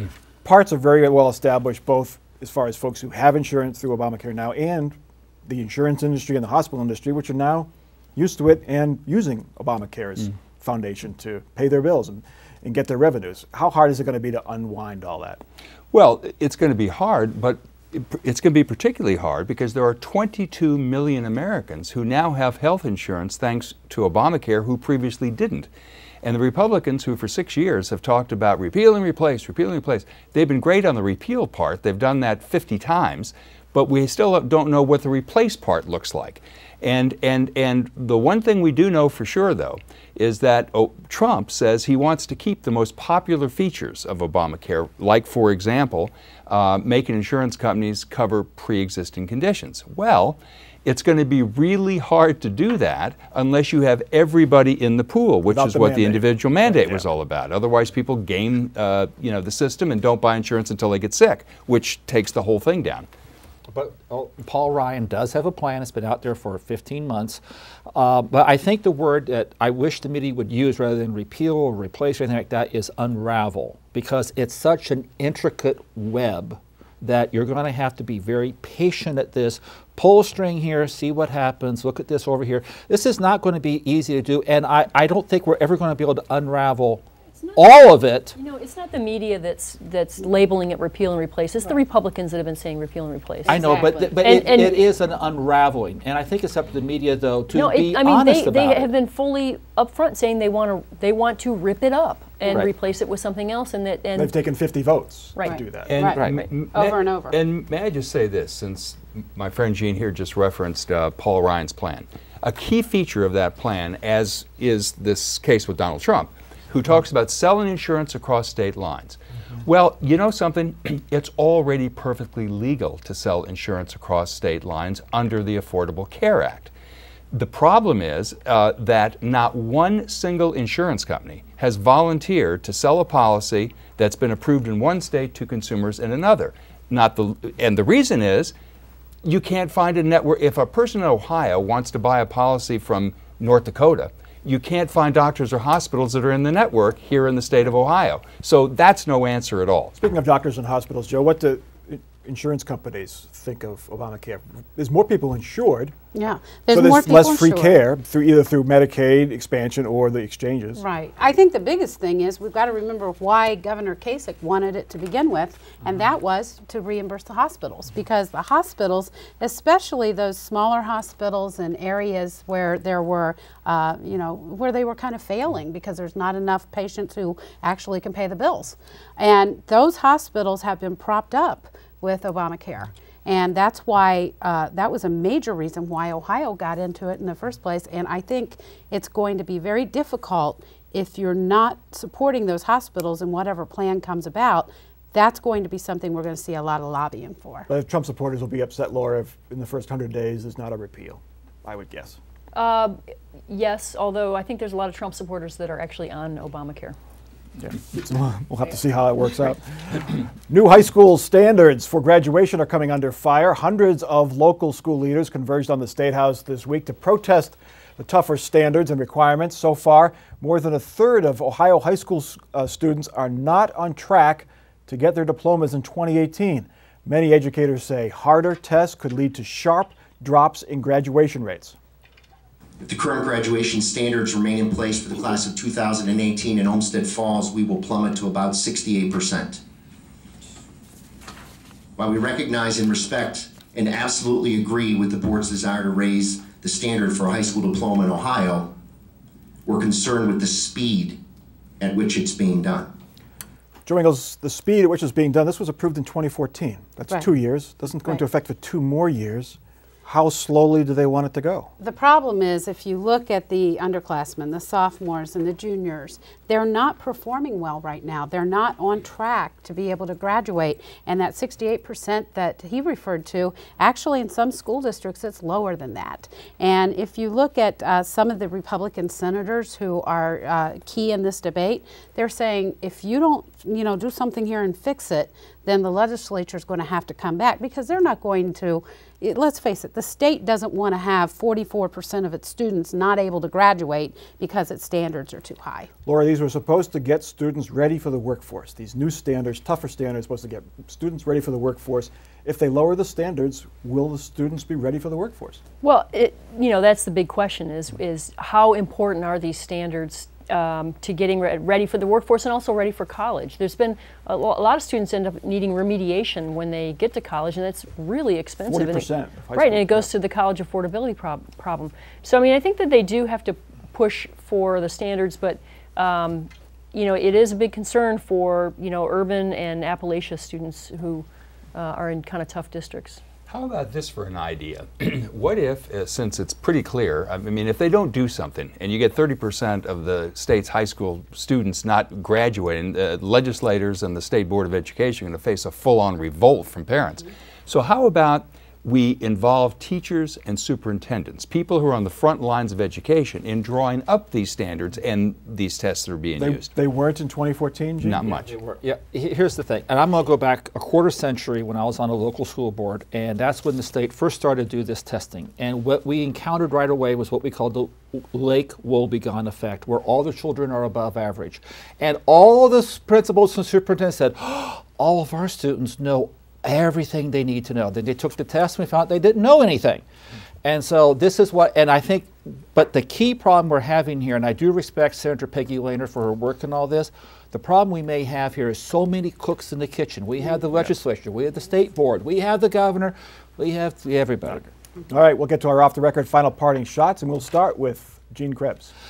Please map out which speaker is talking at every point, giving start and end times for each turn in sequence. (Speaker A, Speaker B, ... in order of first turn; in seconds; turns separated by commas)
Speaker A: 0.4-15.4, Speaker B: 15.9-25.7, Speaker B: 26.2-63.1, Speaker A: 55.5-57.0, Speaker C: 63.7-67.4, Speaker C: 67.9-87.0, Speaker D: 87.3-87.6, Speaker C: 87.5-88.3, Speaker D: 88.3-94.9, Speaker C: 93.5-98.9, Speaker E: 93.5-94.2, Speaker D: 97.5-104.3, Speaker A: 104.2-105.9, Speaker E: 105.5-106.2, Speaker B: 105.8-126.7, Speaker E: 106.7-107.4, Speaker B: 127.3-138.5, Speaker B: 139.2-150.0, Speaker A: 150.0-155.9, Speaker E: 156.1-157.8, Speaker A: 156.7-160.8, Speaker E: 160.8-197.7, Speaker A: 197.7-202.2, Speaker D: 202.5-203.0, Speaker D: 203.5-207.0, Speaker A: 207.6-231.8, Speaker F: 232.8-239.6, Speaker F: 242.0-248.7, Speaker F: 249.7-251.2, Speaker F: 251.8-252.9, Speaker A: 253.8-261.7, Speaker E: 261.8-295.9, Speaker A: 296.1-305.6, Speaker D: 305.8-333.2, Speaker A: 318.7-320.1, Speaker B: 333.5-356.7, Speaker A: 356.4-358.4, Speaker B: 358.0-358.5, Speaker C: 358.5-380.0, Speaker C: 380.6-394.7, Speaker A: 395.1-398.9